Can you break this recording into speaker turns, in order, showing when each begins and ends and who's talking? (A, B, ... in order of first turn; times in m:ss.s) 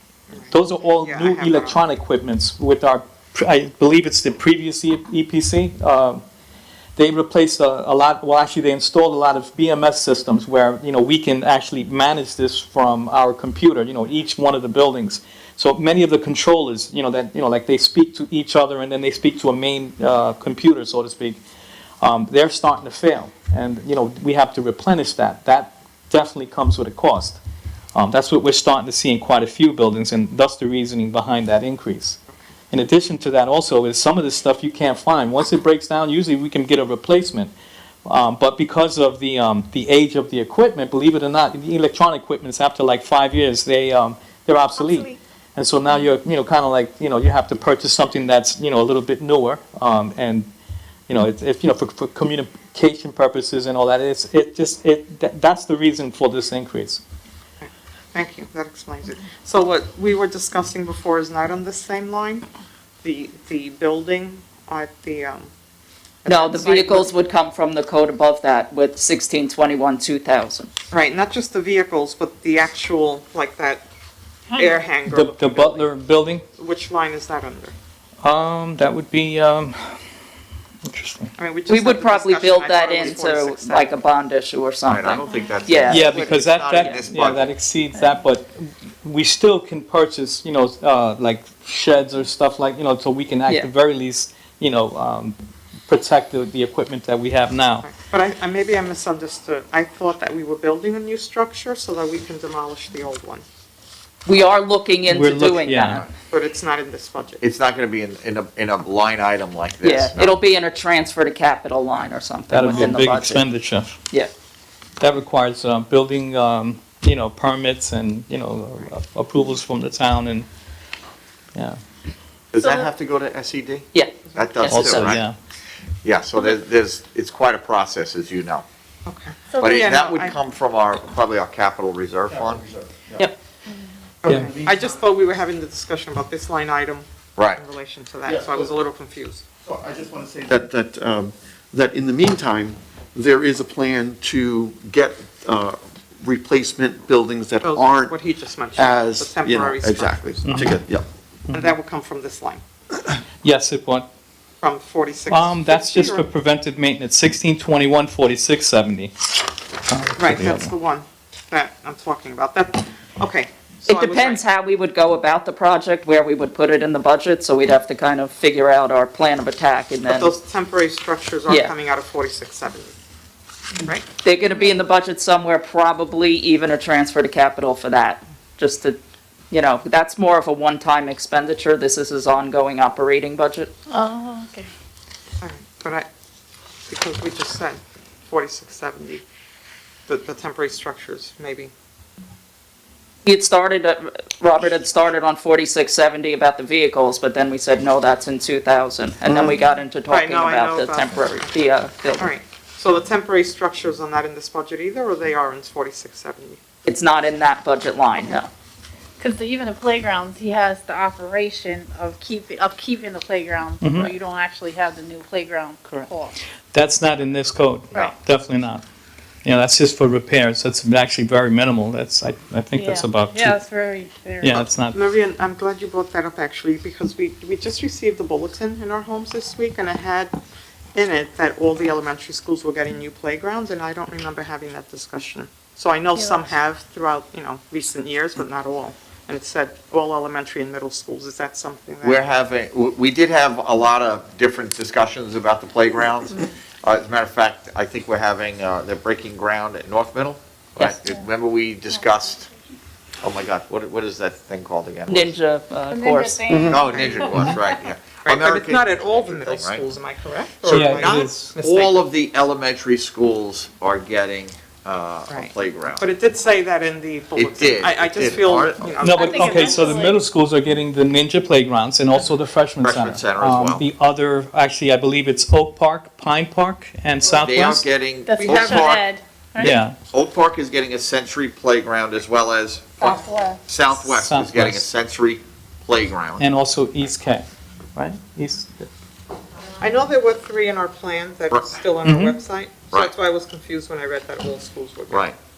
0:00.3-0:01.8 A
0:00.5-0:06.2 B
0:07.0-0:21.4 B
0:22.0-0:27.4 B
0:27.9-0:32.2 B
0:32.7-0:37.5 B
0:38.0-0:50.5 B
0:51.1-0:57.0 B
0:57.6-1:02.4 A
1:03.0-1:05.5 A
1:06.2-1:07.1 A
1:06.3-1:10.7 C
1:10.9-1:13.8 A
1:14.5-1:15.9 A
1:15.1-1:16.4 B
1:16.6-1:17.7 A
1:18.2-1:20.0 B
1:20.8-1:21.3 B
1:21.4-1:24.0 A
1:21.7-1:26.1 C
1:24.8-1:27.5 D
1:25.8-1:26.5 A
1:25.9-1:35.3 B
1:35.9-1:37.9 B
1:37.8-1:43.4 A
1:44.2-1:46.0 C
1:45.1-1:46.0 B
1:46.3-1:47.4 A
1:47.4-1:50.3 D
1:49.8-1:53.4 C
1:52.5-1:54.0 B
1:55.0-2:00.5 B
2:02.5-2:05.2 D
2:03.9-2:05.2 C
2:04.7-2:05.3 B
2:06.0-2:08.6 D
2:09.0-2:10.4 A
2:09.6-2:12.7 D
2:12.4-2:13.3 E
2:14.2-2:19.4 A
2:14.2-2:14.5 B
2:14.3-2:14.9 E
2:18.3-2:18.7 E
2:19.6-2:28.2 E
2:27.6-2:30.3 A
2:28.7-2:31.0 E
2:30.4-2:30.8 B
2:31.5-2:32.6 A
2:33.4-2:34.0 B
2:34.6-2:36.3 A
2:35.3-2:39.1 B
2:39.8-2:40.7 B
2:40.2-2:44.4 A
2:43.8-2:50.3 C
2:50.1-2:52.9 A
2:51.5-2:51.7 C
2:54.2-2:59.0 C
2:59.5-3:03.7 C
3:03.9-3:04.7 F
3:05.4-3:06.1 A
3:06.9-3:09.2 A
3:10.1-3:11.7 A
3:13.2-3:22.3 C
3:19.3-3:19.6 E
3:20.1-3:21.4 A
3:22.1-3:26.6 A
3:26.8-3:28.5 C
3:29.2-3:36.3 F
3:33.8-3:34.1 B
3:36.7-3:38.8 B
3:39.4-3:43.6 B
3:42.7-3:44.6 F
3:44.4-3:45.0 B
3:44.9-3:50.3 A
3:50.9-4:02.2 A
4:02.0-4:12.5 D
4:13.2-4:15.3 D
4:15.1-4:16.6 C
4:15.9-4:17.6 F
4:16.5-4:16.9 E
4:16.6-4:19.8 D
4:18.2-4:22.0 A
4:20.6-4:21.5 B
4:21.0-4:26.1 D
4:25.3-4:30.0 A
4:27.4-4:28.9 D
4:29.0-4:37.8 B
4:29.1-4:30.2 F
4:32.8-4:33.8 D
4:37.4-4:39.1 D
4:38.3-4:39.7 F
4:38.4-4:38.8 A
4:39.6-4:39.9 B
4:39.6-4:46.4 D
4:43.0-4:43.6 F
4:44.0-4:44.8 B
4:46.4-4:48.9 B
4:49.8-4:55.3 A
4:52.0-4:52.4 B
4:55.1-4:55.4 D